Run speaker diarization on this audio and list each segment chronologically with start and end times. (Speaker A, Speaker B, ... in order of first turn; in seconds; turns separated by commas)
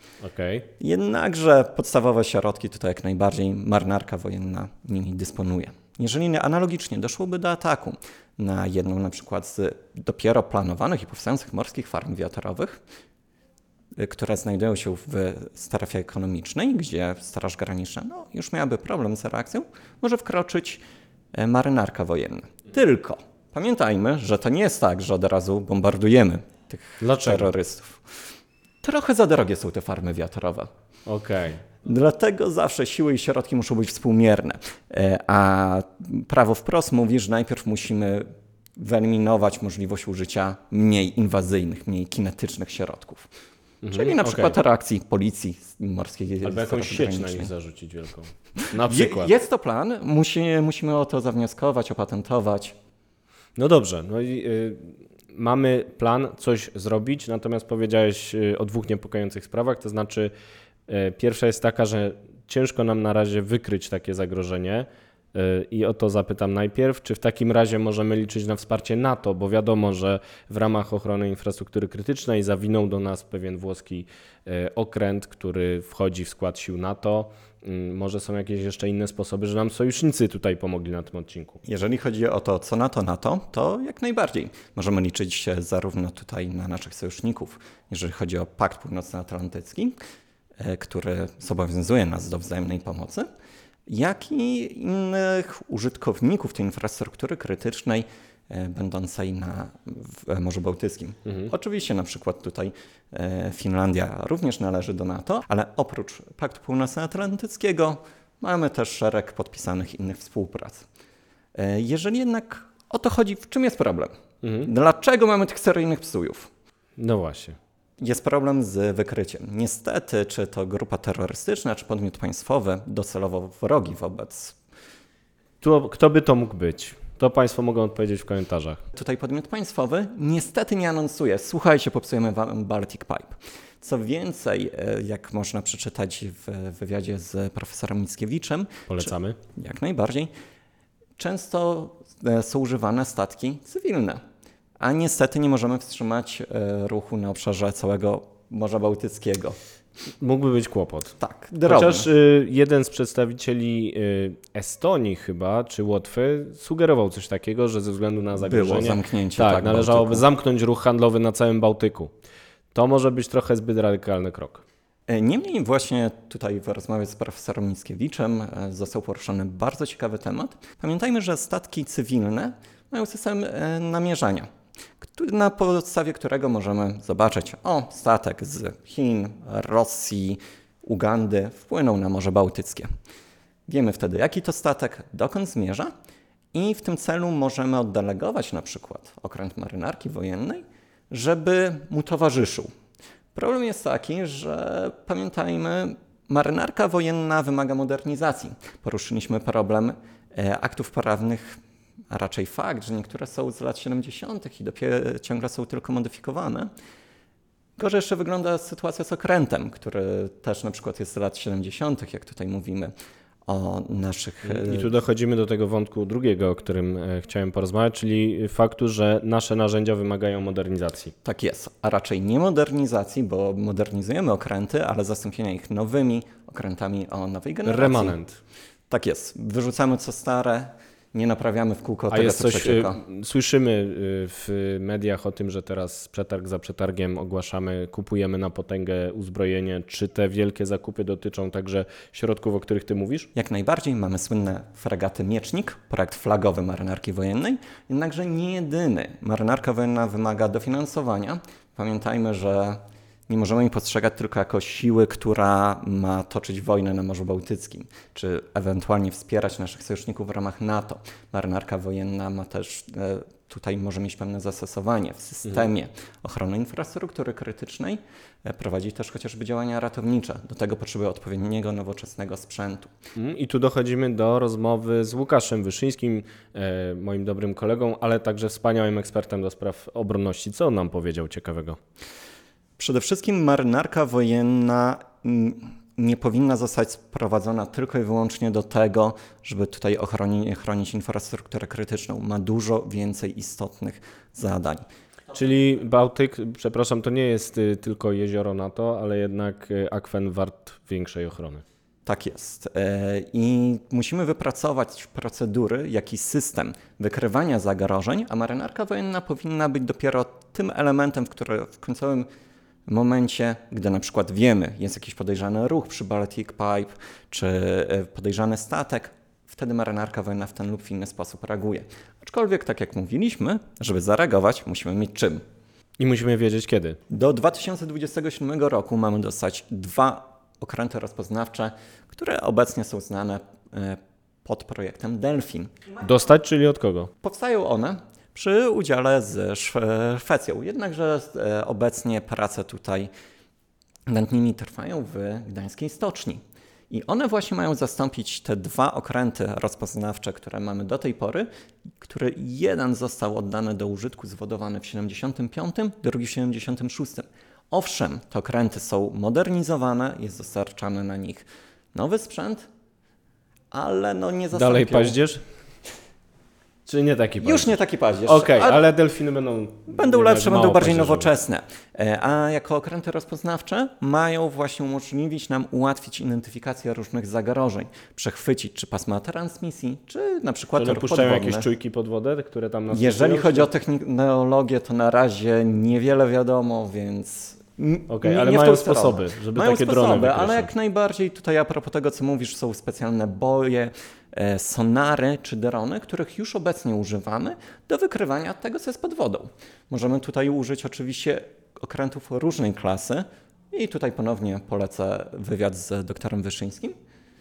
Speaker A: 0.2-0.7, Speaker B: 0.8-12.8, Speaker B: 14.0-20.8, Speaker B: 21.4-28.0, Speaker A: 27.0-27.5, Speaker B: 28.8-30.7, Speaker A: 31.1-31.6, Speaker B: 31.8-43.3, Speaker A: 43.8-44.6, Speaker B: 43.9-47.5, Speaker A: 46.4-49.3, Speaker B: 48.8-52.8, Speaker A: 53.6-60.3, Speaker A: 60.9-81.6, Speaker B: 81.6-90.0, Speaker B: 90.6-93.3, Speaker B: 93.9-110.8, Speaker B: 111.5-114.1, Speaker A: 114.4-114.7, Speaker B: 114.6-116.5, Speaker A: 117.0-117.6, Speaker B: 118.0-124.6, Speaker A: 125.6-128.8, Speaker B: 128.9-140.3, Speaker A: 138.9-139.4, Speaker B: 141.2-144.2, Speaker B: 144.8-149.6, Speaker A: 150.2-151.1, Speaker B: 151.2-152.1, Speaker A: 151.7-162.1, Speaker B: 158.4-160.3, Speaker A: 162.7-164.6, Speaker B: 165.1-174.5, Speaker B: 175.1-182.9, Speaker B: 183.7-185.9, Speaker B: 186.5-192.7, Speaker B: 193.3-201.6, Speaker B: 202.1-206.7, Speaker B: 207.8-212.9, Speaker B: 213.5-214.9, Speaker A: 214.4-221.1, Speaker B: 221.2-228.2, Speaker A: 227.7-228.4, Speaker B: 228.9-233.0, Speaker A: 232.1-243.3, Speaker B: 243.4-272.9, Speaker A: 273.2-281.8, Speaker B: 282.8-294.9, Speaker A: 295.3-301.6, Speaker B: 302.1-312.3, Speaker B: 312.9-325.4, Speaker A: 326.0-327.0, Speaker B: 327.1-335.7, Speaker A: 336.0-337.1, Speaker B: 337.2-343.1, Speaker B: 344.1-351.5, Speaker B: 352.0-362.7, Speaker B: 363.7-365.2, Speaker A: 364.5-365.4, Speaker A: 366.9-367.7, Speaker B: 367.4-368.8, Speaker A: 368.3-371.3, Speaker B: 369.9-381.7, Speaker A: 380.8-383.7, Speaker B: 382.9-406.9, Speaker A: 388.1-390.7